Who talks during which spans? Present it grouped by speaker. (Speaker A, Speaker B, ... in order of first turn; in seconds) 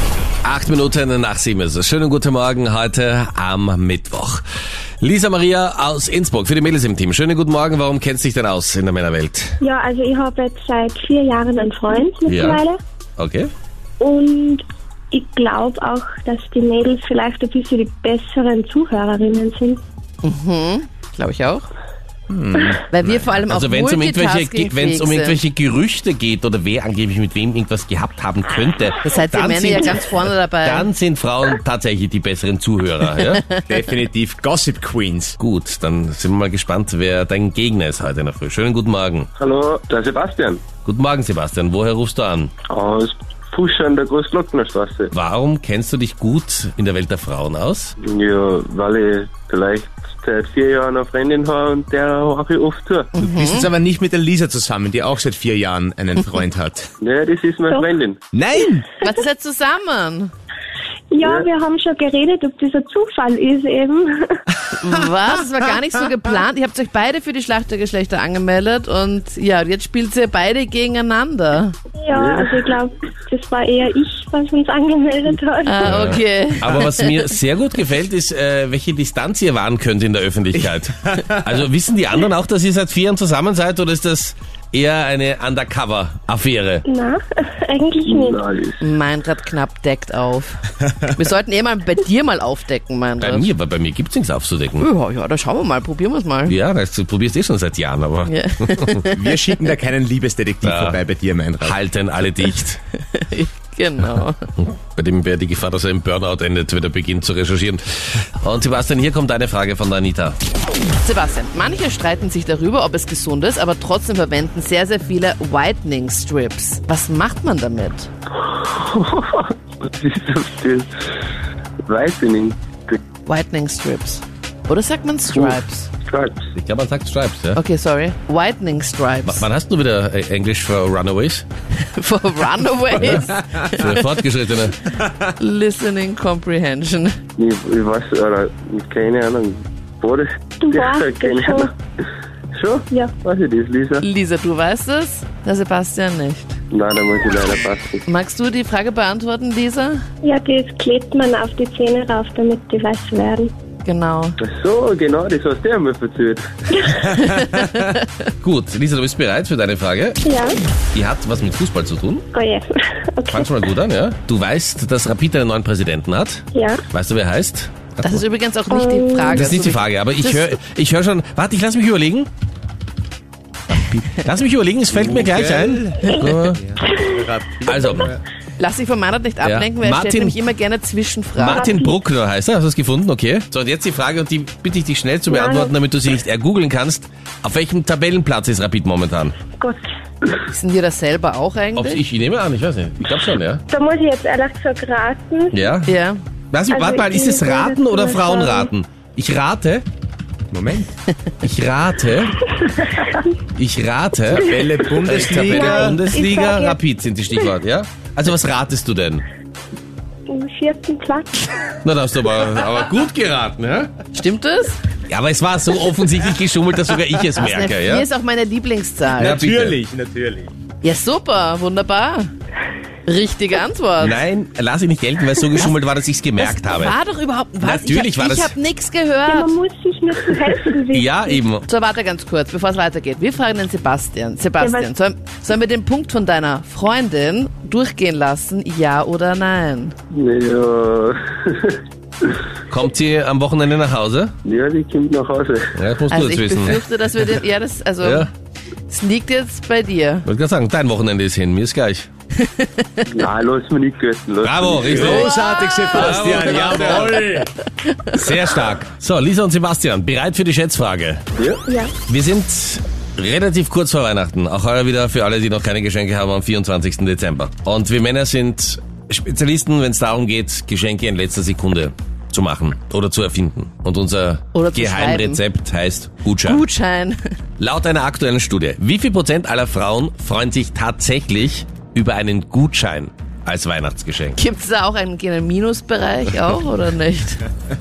Speaker A: 0.4-4.4, 5.0-9.6, 12.3-12.6, 13.2-13.5, 23.5-33.5, 35.4-39.3, 40.8-42.5, 45.1-47.9, 75.8-86.8, 93.2-94.9, 96.5-99.0, 100.6-101.0, 101.6-102.8, 104.6-110.4, 126.5-127.6, 129.2-131.4, 133.7-134.8, 158.4-160.2, 160.9-162.2, 163.3-168.2, 169.3-172.3, 173.7-176.6, 177.7-178.1, 179.4-180.4, 181.4-189.4, 191.7-193.6, 195.5-195.9, 196.5-199.8, 201.4-202.4, 203.5-209.2, 211.8-213.9, 215.1-218.1, 219.2-219.8, 224.0-226.9, 227.6-228.5, 230.9-231.7, 242.7-244.3, 245.7-247.4, 248.0-248.3, 250.2-252.1, 254.4-255.3, 255.9-257.4, 258.1-261.2, 262.1-276.6, 277.6-284.4
Speaker B: 9.6-12.8, 14.0-19.8, 61.1-64.3, 72.0-75.9, 86.8-88.4, 140.6-141.7, 142.9-143.1, 150.2-153.5, 156.8-157.1, 160.2-160.6, 162.3-163.5, 166.5-166.8, 168.7-169.5, 181.4-181.9, 185.3-185.7, 189.5-189.8, 193.7-195.7, 196.7-198.7, 202.9-203.2, 205.4-206.8, 210.3-211.5, 229.3-231.4, 234.6-234.9, 261.7-261.9
Speaker C: 20.2-21.7, 22.9-25.4, 29.0-30.9, 33.2-33.8, 53.1-53.7, 59.0-60.3, 64.7-71.8, 75.6-77.1, 88.8-93.5, 94.8-96.5, 98.3-99.5, 103.1-104.4, 111.0-118.1, 123.3-125.9, 127.5-129.4, 131.8-134.0, 135.0-137.2, 144.0-146.6, 148.1-150.0, 153.8-154.3, 157.2-158.1, 168.0-170.5, 178.6-181.7, 190.5-192.0, 195.8-196.2, 214.1-214.8, 217.4-219.4, 220.8-222.3, 223.1-224.2, 225.5-225.8, 226.4-229.5, 231.7-239.9, 246.1-248.3, 248.9-250.2, 252.4-253.1, 255.3-256.3, 274.5-275.4, 276.4-277.3, 284.4-287.4
Speaker D: 22.3-23.4, 33.7-35.4, 53.2-56.9, 58.3-58.9, 99.1-101.8, 174.9-178.2, 200.5-200.9, 204.3-206.0, 219.2-220.5, 254.9-257.5
Speaker E: 39.4-40.6, 42.7-45.1, 48.0-53.1, 57.0-58.2, 61.2-61.5, 72.1-72.7, 88.0-88.8, 118.4-120.9, 121.9-123.0, 126.0-126.5, 137.4-141.7, 142.5-144.0, 146.7-148.0, 154.4-156.5, 240.1-242.3, 244.4-245.7, 253.1-255.2, 261.4-261.6